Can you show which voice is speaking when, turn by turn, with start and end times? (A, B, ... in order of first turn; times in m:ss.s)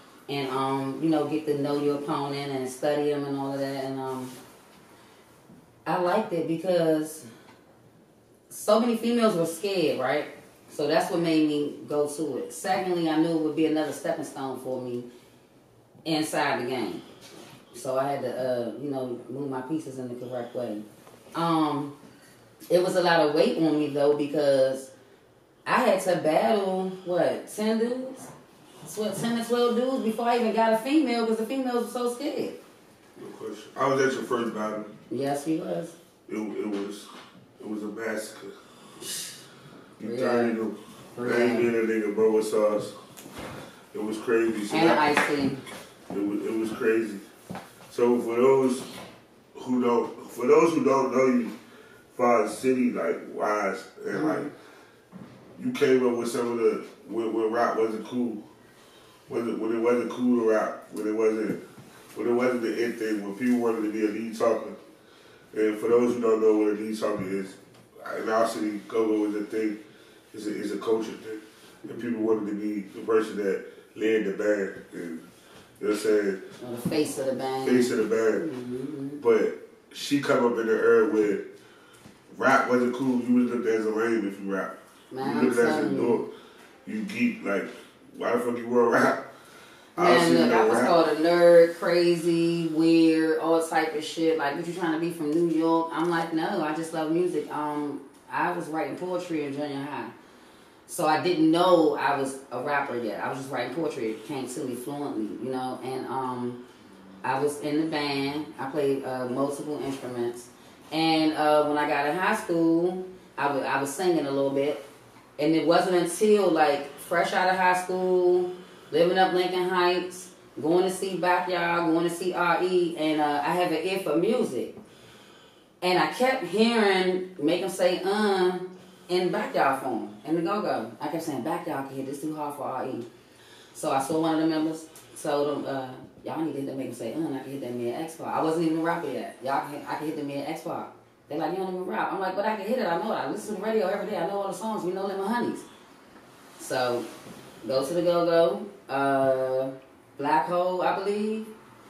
0:00.3-0:04.3 A
0:05.8-0:07.2 A
0:08.5-0:15.1 A
0:16.0-0:17.0 A
0:17.7-0:20.8 A
0:21.3-0:21.9 A
0:22.7-0:24.9 A
0:25.6-0:28.3 A
0:28.8-0:32.6 A
0:33.2-0:34.9 B
0:35.1-0:35.9 A
0:36.3-0:37.1 B
0:37.6-0:38.5 B
0:40.0-0:42.9 B
0:40.0-0:40.6 A
0:41.1-0:41.7 A
0:43.9-0:45.0 B
0:44.7-0:45.6 A
0:46.1-0:47.2 B
0:47.9-0:48.9 B
0:49.5-0:51.5 B
0:52.1-0:54.5 B
0:54.1-0:54.5 A
0:55.6-0:58.4 B
0:59.3-1:01.6 B
1:02.1-1:04.7 B
1:05.5-1:09.8 B
1:10.3-1:15.2 B
1:15.8-1:16.4 B
1:16.6-1:19.2 A
1:17.6-1:18.4 B
1:19.2-1:21.4 B
1:22.3-1:26.3 B
1:25.1-1:26.2 A
1:26.8-1:29.2 B
1:30.0-1:30.9 B
1:30.0-1:40.1 A
1:40.9-1:46.6 A
1:47.2-1:54.8 A
1:55.4-2:04.7 A
2:05.8-2:13.1 A
2:13.7-2:25.6 A
2:26.6-2:27.0 A
2:27.6-2:31.5 A